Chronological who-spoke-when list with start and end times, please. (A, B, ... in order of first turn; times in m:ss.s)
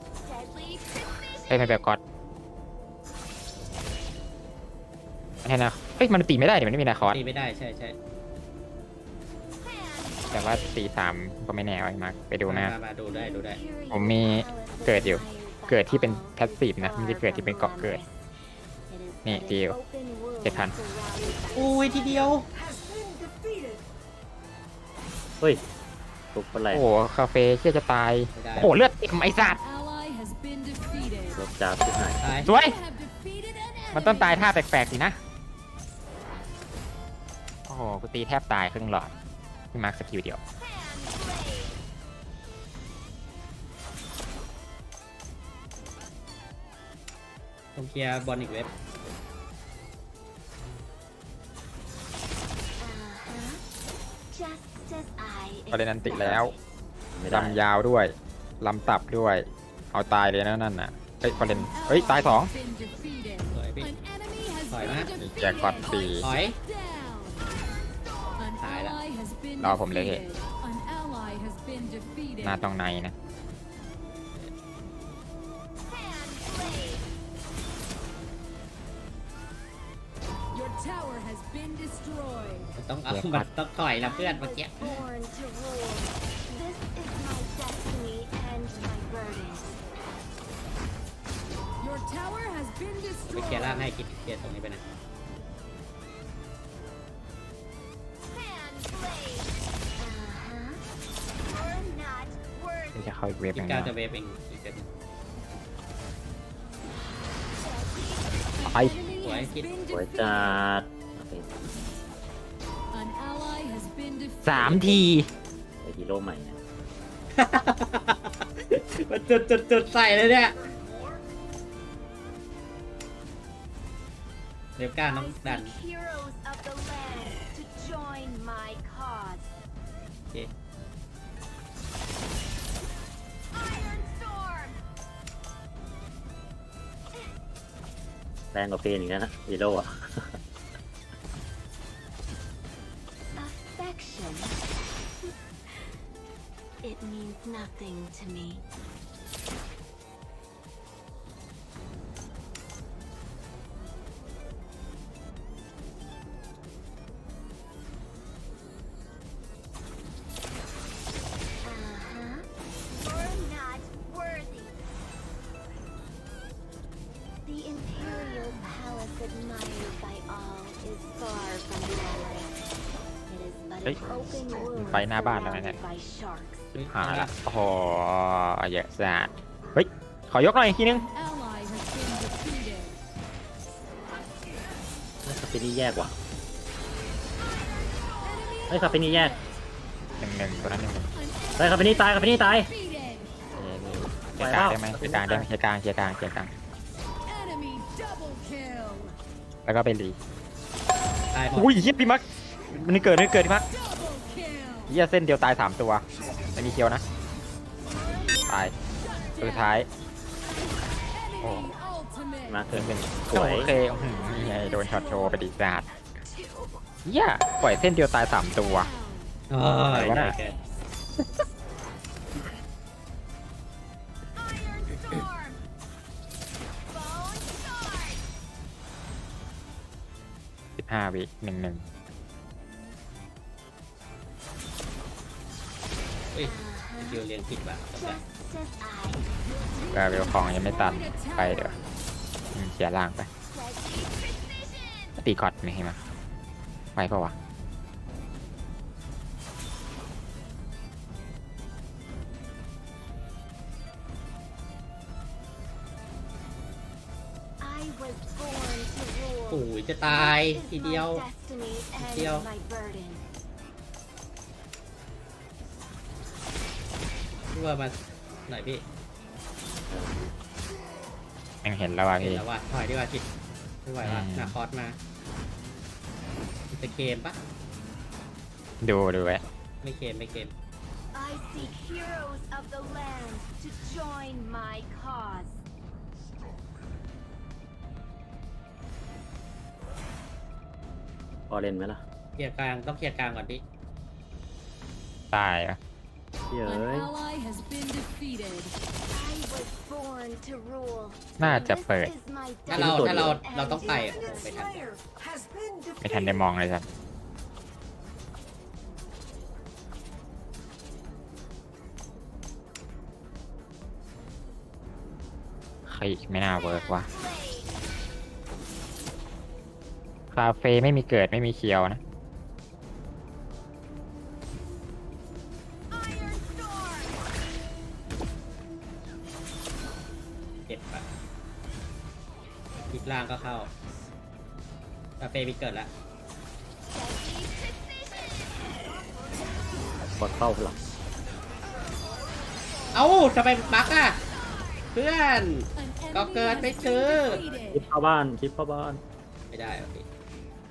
0:00.2-0:01.8 A
0:01.5-0:02.0 B
0:05.4-0:07.2 B
0:07.1-0:08.0 C
0:09.7-0:10.8 A
0:10.3-0:12.7 B
0:12.4-0:13.6 C
0:13.1-0:18.3 A
0:13.9-0:18.0 B
0:18.9-0:22.3 A
0:19.2-0:19.8 B
0:20.4-0:20.7 B
0:21.5-0:22.5 C
0:22.5-0:23.8 D
0:26.3-0:26.8 E
0:26.7-0:29.6 B
0:28.3-0:28.7 C
0:29.3-0:31.4 F
0:31.3-0:32.4 E
0:32.2-0:32.5 C
0:32.3-0:34.6 F
0:32.4-0:32.7 B
0:33.9-0:35.2 B
0:37.7-0:39.1 B
0:39.7-0:40.4 B
0:40.6-0:41.7 A
0:47.8-0:48.7 C
0:52.8-0:53.6 A
0:54.3-0:56.6 A
0:55.7-0:56.5 B
0:57.1-0:57.6 E
0:57.3-1:02.5 B
1:01.4-1:07.5 F
1:03.5-1:03.9 C
1:04.7-1:05.1 C
1:05.2-1:06.2 B
1:06.2-1:06.6 C
1:08.4-1:12.6 F
1:08.6-1:09.0 C
1:09.6-1:10.2 B
1:12.4-1:13.1 B
1:15.9-1:17.0 A
1:20.5-1:22.8 F
1:22.8-1:25.0 C
1:23.1-1:23.5 B
1:23.9-1:29.8 A
1:31.8-1:33.9 F
1:33.3-1:34.8 C
1:38.3-1:40.8 A
1:41.4-1:43.2 A
1:42.9-1:43.9 B
1:43.5-1:44.8 C
1:47.6-1:49.2 A
1:48.6-1:50.6 F
1:48.6-1:49.0 B
1:49.2-1:49.7 C
1:49.9-1:51.7 E
1:52.9-1:55.1 F
1:54.4-1:55.3 B
1:54.6-1:54.9 E
1:55.8-1:56.6 E
1:57.4-2:00.6 C
2:04.8-2:05.7 C
2:05.1-2:09.4 A
2:13.6-2:14.8 A
2:18.5-2:20.4 E
2:23.4-2:25.9 A
2:26.8-2:28.6 A
2:41.6-2:42.5 A
2:43.0-2:44.7 A
2:47.4-2:52.6 A
2:53.3-2:56.7 A
2:53.8-2:55.8 B
2:56.7-2:57.3 C
2:56.8-3:01.0 B
3:00.9-3:03.0 F
3:05.2-3:06.2 E
3:08.2-3:09.4 F
3:08.7-3:09.4 E
3:10.2-3:11.1 B
3:11.2-3:13.3 F
3:11.6-3:12.7 E
3:13.5-3:16.5 B
3:14.4-3:15.5 E
3:17.2-3:19.1 F
3:19.6-3:20.2 B
3:21.3-3:21.7 C
3:21.5-3:23.6 B
3:23.7-3:24.9 F
3:24.9-3:27.0 B
3:28.5-3:28.7 B
3:29.0-3:29.7 F
3:29.4-3:29.9 B
3:31.0-3:32.6 F
3:31.4-3:31.7 B
3:32.5-3:33.7 E
3:32.7-3:35.9 B
3:37.0-3:38.9 B
3:38.5-3:39.3 F
3:39.5-3:40.5 C
3:39.9-3:40.3 B
3:44.8-3:45.5 A
3:47.0-3:48.1 A
3:50.8-3:51.9 B
3:56.3-3:58.2 C
3:56.4-3:57.3 A
3:58.0-3:59.3 A
3:59.3-4:01.8 F
3:59.9-4:01.8 B
4:02.5-4:03.3 B
4:03.5-4:04.8 A
4:05.2-4:06.0 B
4:07.0-4:07.3 B
4:17.6-4:23.2 A
4:19.5-4:21.2 C
4:22.0-4:22.5 C
4:27.5-4:27.9 C
4:28.5-4:28.8 C
4:29.9-4:30.3 E
4:31.6-4:32.4 B
4:32.2-4:33.2 C
4:33.8-4:35.0 C
4:34.0-4:34.6 B
4:36.7-4:37.4 C
4:38.8-4:39.4 B
4:39.8-4:40.5 C
4:41.1-4:45.6 A
4:51.5-4:52.0 E
4:52.4-4:53.6 C
4:55.3-4:55.8 B
4:56.5-4:57.1 E
4:56.6-4:58.7 F
4:59.1-5:04.7 A
5:01.4-5:02.1 B
5:02.7-5:03.4 E
5:02.7-5:04.8 C
5:03.8-5:06.5 D
5:06.0-5:06.8 B
5:15.8-5:17.1 B
5:16.6-5:17.6 A
5:20.3-5:22.0 B
5:30.7-5:31.0 C
5:32.9-5:33.7 C
5:35.2-5:35.9 C
5:36.9-5:38.5 A
5:40.0-5:40.8 E
5:42.9-5:44.2 C
5:43.7-5:44.8 A
5:44.9-5:47.4 C
5:45.8-5:47.8 F
5:47.7-5:49.0 E
5:49.5-5:50.0 C